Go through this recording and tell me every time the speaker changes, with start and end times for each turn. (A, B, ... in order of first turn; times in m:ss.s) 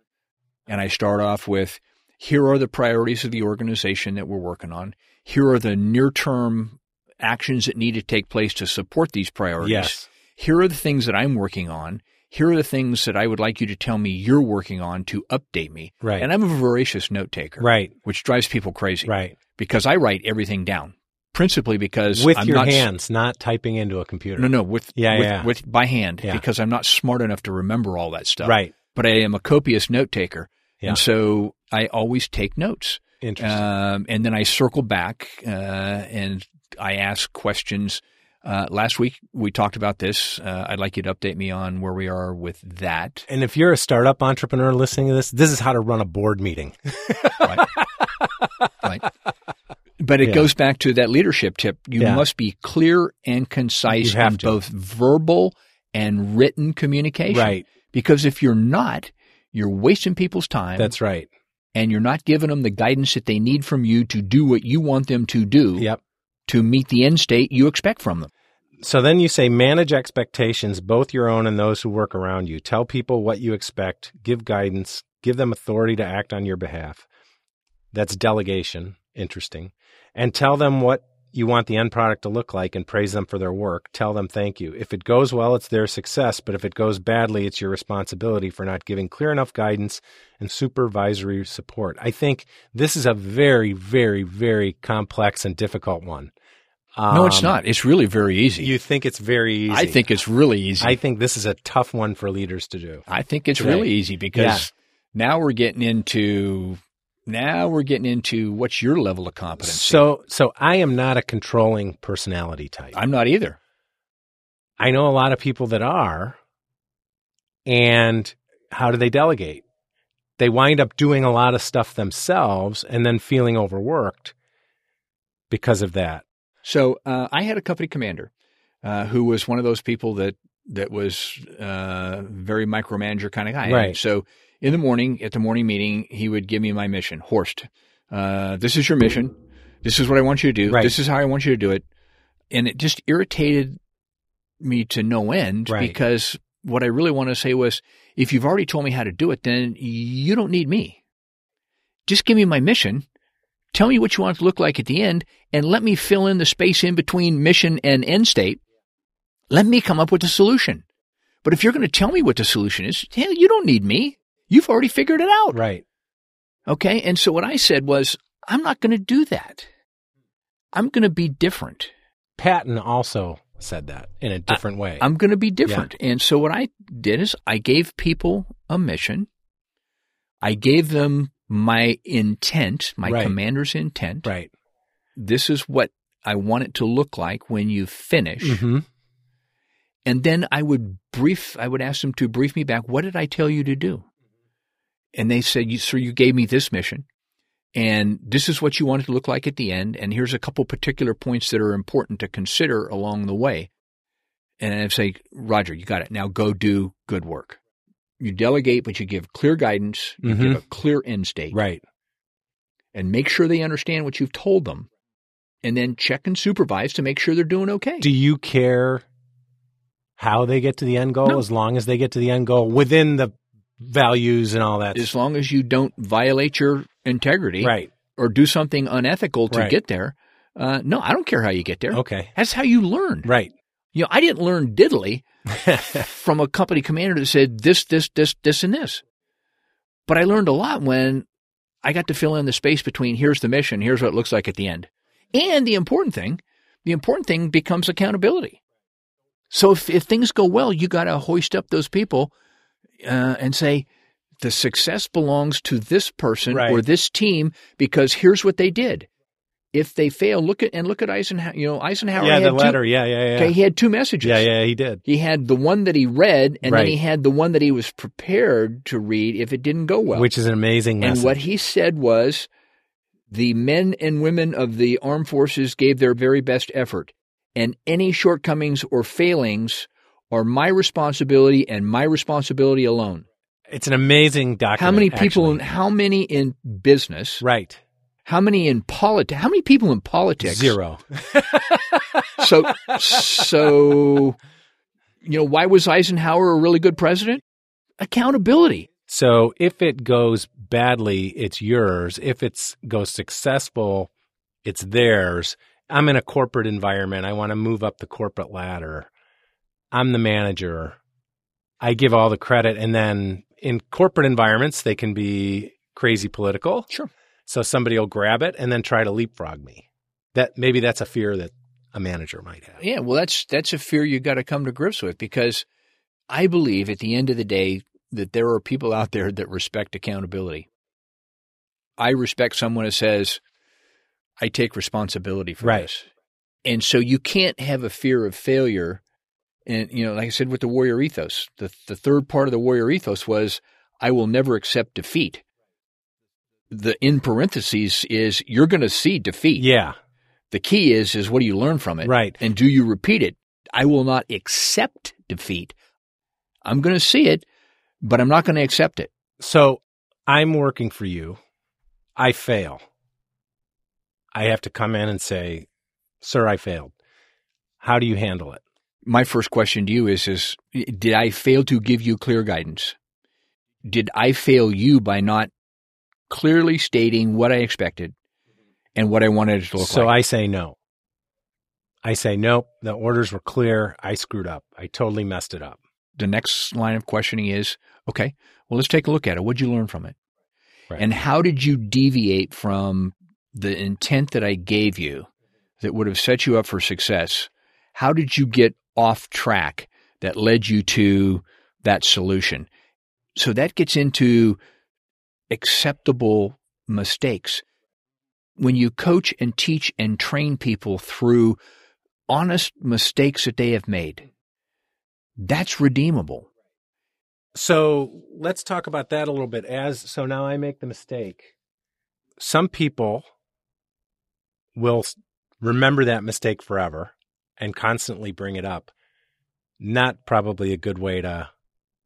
0:00.7-0:22.8 A
0:09.6-0:10.0 B
0:16.0-0:16.3 B
0:17.6-0:17.9 B
0:19.0-0:19.4 B
0:22.1-0:25.5 B
0:24.4-0:43.3 A
0:28.4-0:28.7 B
0:33.2-0:33.6 B
0:43.3-0:48.7 B
0:47.4-0:47.7 A
0:50.0-1:00.9 A
0:50.2-0:50.5 B
0:52.0-0:52.2 B
0:54.0-0:54.6 B
0:57.3-0:57.6 B
1:00.8-1:01.3 B
1:01.7-1:05.9 A
1:06.5-1:08.3 A
1:08.8-1:17.0 B
1:17.9-1:36.3 B
1:36.9-1:37.6 B
1:37.1-1:38.7 A
1:38.6-1:40.1 B
1:39.7-1:41.0 A
1:40.8-1:44.7 B
1:43.1-1:50.0 A
1:49.6-1:53.0 B
1:52.9-1:53.6 A
1:54.8-1:56.4 B
1:57.6-1:59.6 B
2:00.4-2:04.3 B
2:05.5-2:06.2 B
2:06.6-2:08.3 A
2:08.8-2:21.8 A
2:13.6-2:14.0 B
2:20.7-2:20.9 B
2:22.5-2:23.8 A
2:24.6-2:31.0 A
2:25.7-2:26.0 B
2:32.0-2:33.0 A
2:33.7-2:38.6 A
2:39.5-2:40.8 A
2:41.4-2:45.6 A
2:45.5-2:45.8 B
2:46.7-2:49.7 A
2:50.7-2:51.9 A
2:52.4-2:55.0 B
2:54.5-2:59.3 A
3:00.4-3:04.3 A
3:03.0-3:03.3 B
3:04.2-3:04.5 B
3:05.2-3:08.6 A
3:08.4-3:08.8 B
3:10.0-3:14.0 A
3:15.1-3:17.0 A
3:17.7-3:23.7 A
3:24.6-3:27.6 A
3:28.2-3:31.6 A
3:30.2-3:30.6 B
3:31.5-3:31.8 B
3:32.9-3:34.9 A
3:35.6-3:38.1 A
3:38.0-3:39.0 B
3:40.2-3:45.1 B
3:44.9-3:53.3 A
3:47.6-3:47.9 B
3:49.5-3:49.7 B
3:51.9-3:52.3 B
3:53.2-3:53.5 B
3:53.9-3:55.2 A
3:55.6-3:56.0 B
3:55.8-3:59.0 A
4:00.1-4:01.2 A
4:01.8-4:08.6 A
4:09.5-4:12.3 A
4:13.0-4:13.9 A
4:14.4-4:19.1 A
4:16.5-4:16.8 B
4:19.7-4:22.8 A
4:22.2-4:23.5 B
4:23.4-4:24.5 A
4:24.2-4:25.0 B
4:25.0-4:30.3 A
4:26.6-4:27.0 B
4:30.1-4:31.4 B
4:31.0-4:32.5 A
4:33.3-4:43.2 A
4:43.7-4:45.6 B
4:44.8-4:47.4 A
4:47.4-4:47.8 B
4:48.2-4:50.8 A
4:50.4-4:52.4 B
4:52.4-4:54.4 A
4:55.2-4:57.4 A
4:58.0-4:58.9 A
4:59.1-5:04.1 B
5:04.6-5:09.1 B
5:09.9-5:11.0 B
5:11.8-5:16.9 B
5:17.5-5:22.8 B
5:22.8-5:25.6 A
5:26.3-5:30.7 A
5:32.0-5:33.4 A
5:34.4-5:36.1 A
5:35.6-5:35.9 B
5:36.6-5:39.0 A
5:39.6-5:45.4 A
5:46.7-5:49.6 A
5:49.6-5:50.0 B
5:50.5-5:55.7 A
5:52.0-5:52.4 B
5:56.6-5:57.4 A
5:58.0-5:59.1 A
5:59.4-6:01.4 B
6:02.2-6:02.8 B
6:04.3-6:05.7 B
6:06.2-6:06.9 B
6:07.8-6:08.6 B
6:09.0-6:13.0 A
6:13.8-6:15.5 A
6:16.3-6:18.1 A
6:19.0-6:20.1 A
6:19.8-6:20.8 B
6:22.0-6:25.8 B
6:26.2-6:30.2 A
6:31.0-6:35.3 A
6:35.8-6:42.7 A
6:43.4-6:44.6 A
6:45.5-6:47.6 A
6:48.6-6:51.6 A
6:52.3-6:54.3 A
6:55.4-6:56.5 A
6:57.5-7:01.5 B
7:02.4-7:03.3 B
7:04.8-7:08.9 B
7:09.8-7:11.5 B